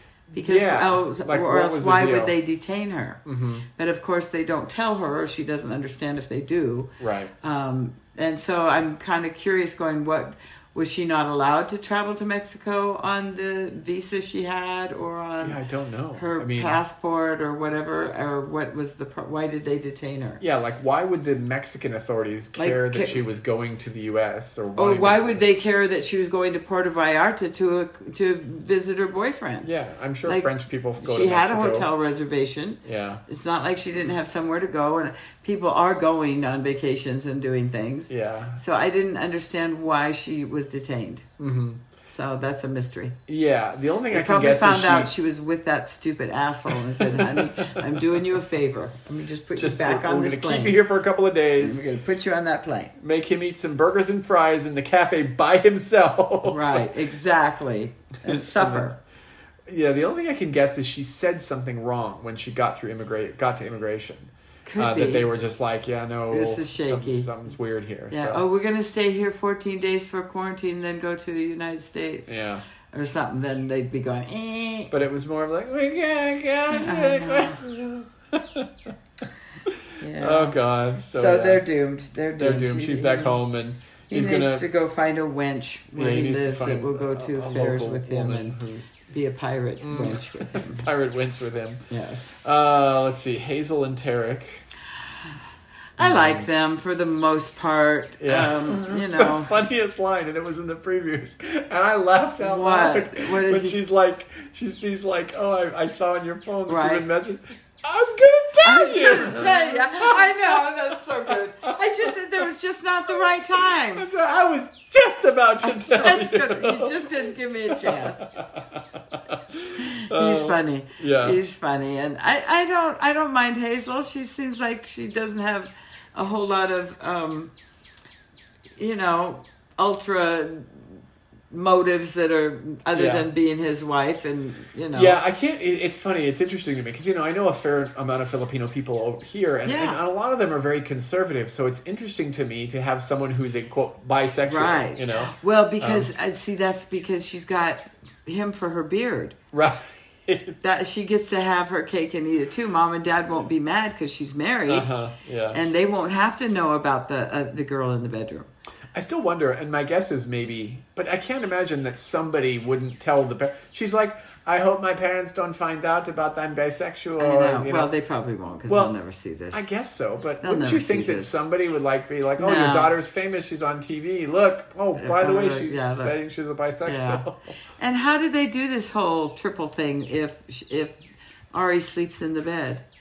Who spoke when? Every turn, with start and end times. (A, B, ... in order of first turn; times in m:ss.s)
0:00.3-0:02.4 A
0:00.3-0:03.2 B
0:03.2-0:03.7 A
0:03.7-0:15.6 B
0:07.0-0:07.3 A
0:15.4-0:16.8 A
0:16.1-0:20.4 B
0:20.4-0:25.4 A
0:22.6-0:23.2 B
0:24.8-0:29.7 B
0:29.6-0:31.9 A
0:30.2-0:41.3 B
0:32.8-0:33.2 A
0:38.1-0:38.6 A
0:41.4-0:41.8 A
0:42.1-0:43.2 B
0:43.3-0:45.1 A
0:44.1-0:50.8 B
0:46.7-0:48.2 A
0:49.5-0:51.8 A
0:51.6-0:52.9 B
0:53.0-0:56.9 A
0:56.4-0:59.0 B
0:58.2-0:58.9 A
0:59.7-1:08.4 A
1:04.6-1:05.2 B
1:06.3-1:07.3 B
1:08.1-1:12.4 B
1:12.3-1:12.6 A
1:12.9-1:14.9 B
1:14.9-1:18.9 A
1:16.7-1:17.6 B
1:19.6-1:21.6 A
1:20.0-1:23.4 B
1:22.4-1:24.6 A
1:24.1-1:28.6 B
1:26.0-1:29.0 A
1:29.1-1:30.9 B
1:29.8-1:31.8 A
1:31.9-1:32.4 B
1:32.4-1:34.6 A
1:36.0-1:39.5 B
1:36.0-1:36.5 A
1:38.2-1:50.6 A
1:42.4-1:43.8 B
1:46.7-1:47.0 B
1:48.6-1:54.1 B
1:51.6-1:52.1 A
1:53.7-2:01.4 A
1:55.6-1:58.3 B
1:59.8-2:07.5 B
2:08.8-2:11.0 B
2:11.5-2:15.2 B
2:12.9-2:13.3 A
2:14.9-2:26.1 A
2:19.6-2:20.0 B
2:24.4-2:29.4 B
2:29.5-2:30.6 A
2:30.6-2:34.9 B
2:34.7-2:35.6 A
2:35.5-2:38.5 B
2:38.9-2:47.9 A
2:47.2-2:49.7 B
2:48.7-2:48.9 A
2:49.5-2:57.4 A
2:50.4-2:51.4 B
2:52.4-2:52.9 B
2:55.0-2:56.1 B
2:56.8-2:57.2 B
2:57.8-3:01.0 B
3:01.5-3:02.8 B